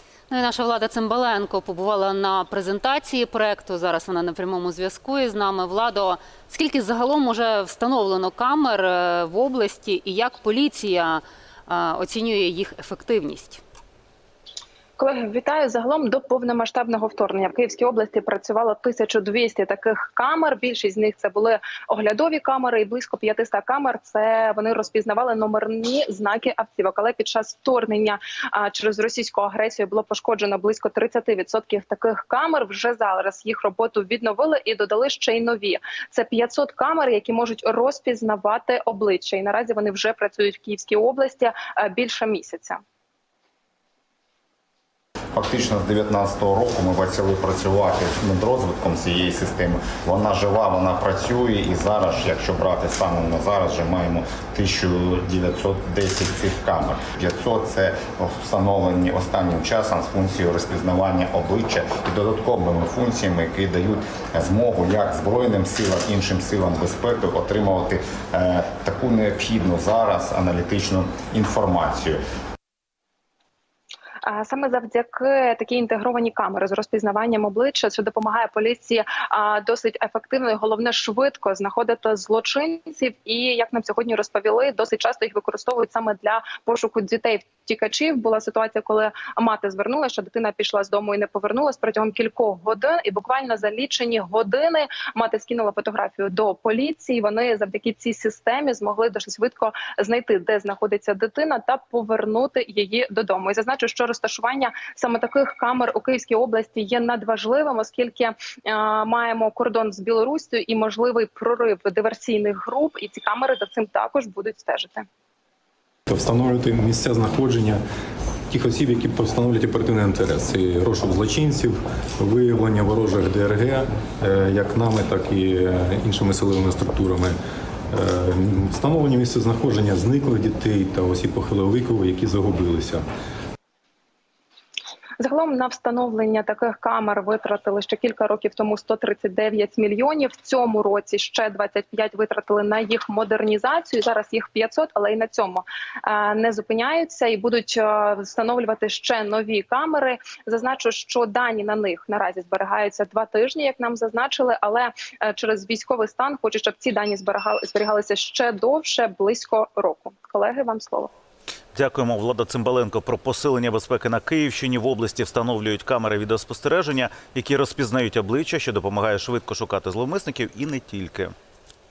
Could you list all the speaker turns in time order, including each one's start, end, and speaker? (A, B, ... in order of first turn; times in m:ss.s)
0:00.3-0:13.6 A
0:15.0-0:42.8 B
0:45.3-1:12.2 C
1:14.2-1:55.1 B
1:56.1-1:57.8 D
1:58.5-2:07.4 D
2:07.9-2:13.0 D
2:15.2-2:41.1 B
2:41.8-2:51.3 E